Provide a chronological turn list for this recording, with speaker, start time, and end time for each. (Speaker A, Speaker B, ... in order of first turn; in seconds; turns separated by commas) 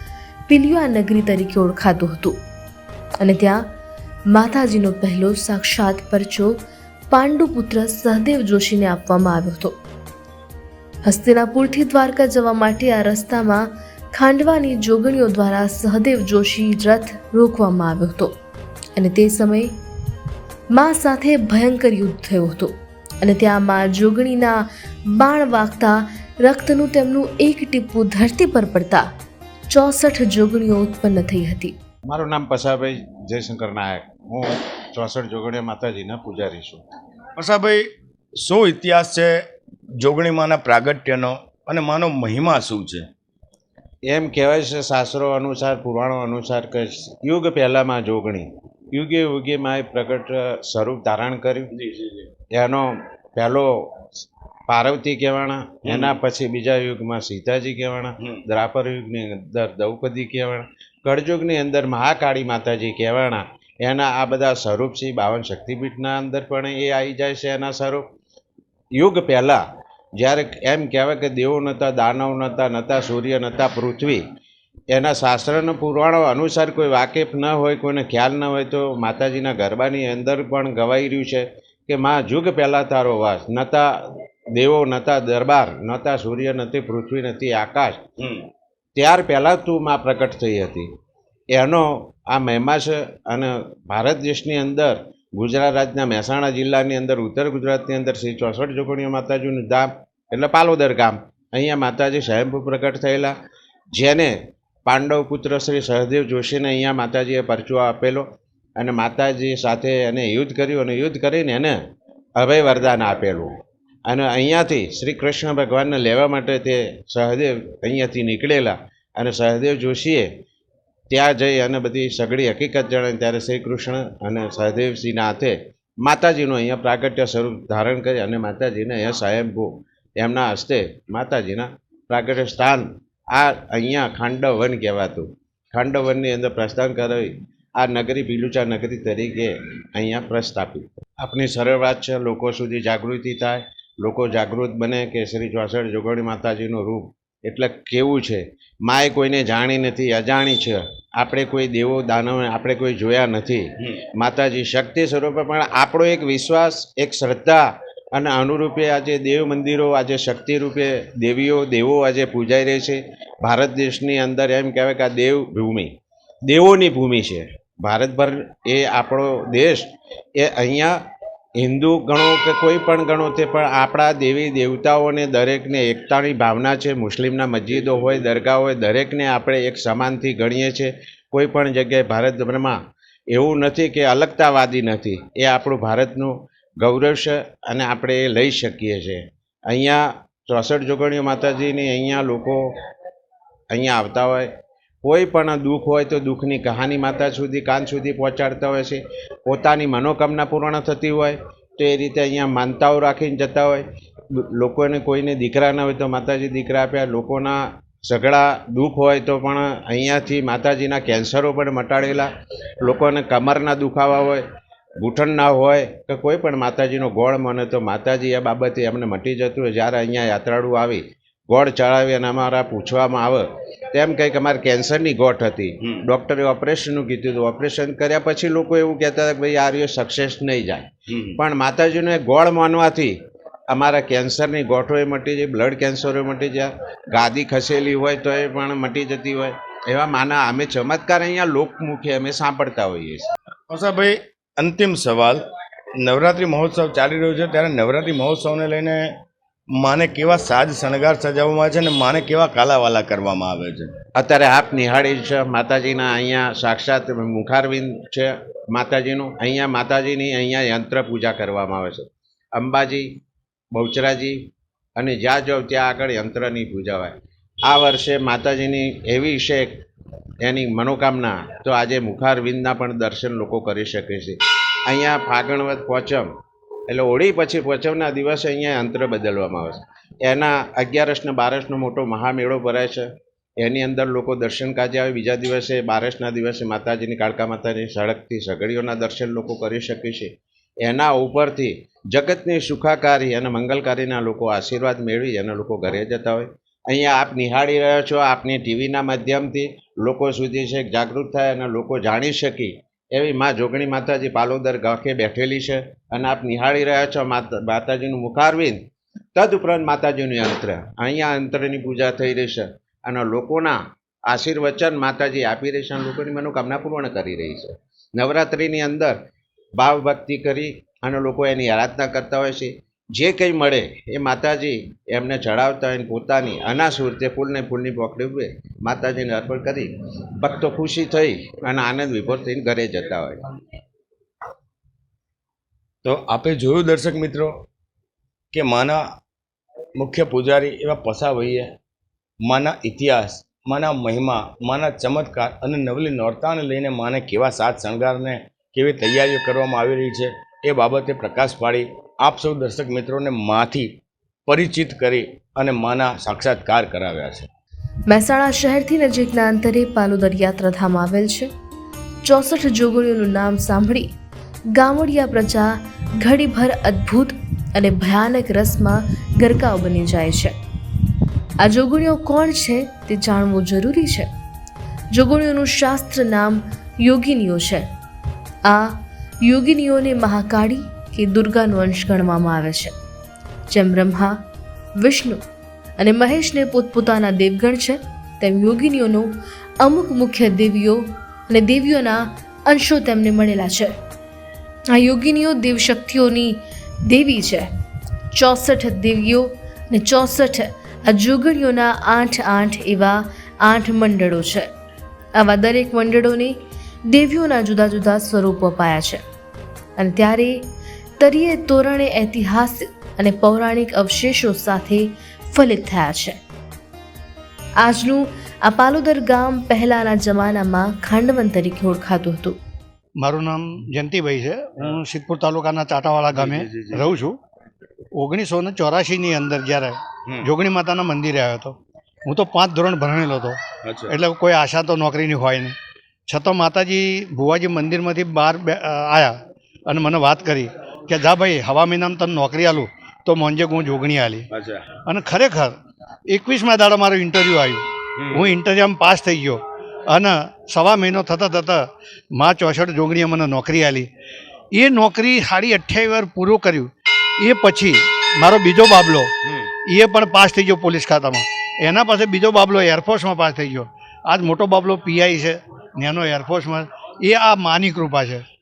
Speaker A: 0.5-2.4, Speaker A: 3.2-3.6, Speaker A: 4.3-6.6, Speaker A: 7.1-9.8, Speaker A: 11.1-18.3, Speaker A: 18.9-19.7, Speaker A: 20.7-29.0, Speaker A: 29.7-31.8, Speaker B: 32.1-36.8, Speaker C: 37.4-39.4, Speaker C: 40.0-43.1, Speaker B: 44.0-51.7, Speaker C: 51.7-52.3, Speaker B: 52.5-68.0, Speaker C: 55.8-56.2, Speaker C: 58.2-58.4, Speaker B: 68.9-69.6, Speaker B: 70.2-74.2, Speaker B: 74.9-88.0, Speaker C: 88.2-88.5, Speaker B: 89.0-90.9, Speaker B: 91.5-103.4, Speaker B: 103.9-111.8, Speaker B: 112.3-120.3, Speaker B: 121.1-171.0, Speaker B: 171.6-182.8, Speaker B: 183.3-192.7, Speaker B: 193.7-194.5, Speaker B: 195.0-212.3, Speaker B: 212.8-214.4, Speaker B: 215.0-233.2, Speaker C: 225.8-226.1, Speaker C: 231.1-231.4, Speaker B: 233.7-243.3, Speaker C: 243.7-245.4, Speaker C: 246.0-249.2, Speaker C: 249.8-253.9, Speaker B: 254.1-263.2, Speaker B: 263.7-269.9, Speaker B: 270.4-276.3, Speaker B: 276.9-319.2, Speaker B: 319.7-333.4, Speaker C: 336.0-337.6, Speaker C: 338.5-339.0, Speaker C: 339.9-341.7, Speaker C: 342.4-357.5, Speaker A: 358.1-361.5, Speaker A: 362.2-364.1, Speaker A: 364.7-370.5, Speaker A: 371.6-374.3, Speaker A: 375.1-377.9, Speaker A: 378.6-382.9, Speaker A: 383.7-384.3, Speaker A: 385.0-385.4, Speaker A: 386.0-389.3, Speaker A: 389.8-393.9, Speaker A: 394.9-397.7, Speaker A: 398.3-404.7, Speaker A: 405.3-409.2, Speaker A: 410.0-410.6, Speaker A: 411.2-416.4, Speaker A: 417.8-422.6, Speaker D: 423.2-427.4, Speaker C: 426.3-427.1, Speaker D: 428.1-435.7, Speaker C: 433.8-434.1, Speaker D: 436.3-439.3, Speaker D: 439.9-444.5, Speaker C: 444.5-444.9, Speaker D: 445.0-445.7, Speaker D: 446.3-454.1, Speaker C: 448.2-448.5, Speaker D: 454.7-459.3, Speaker C: 459.4-459.7, Speaker D: 459.9-468.4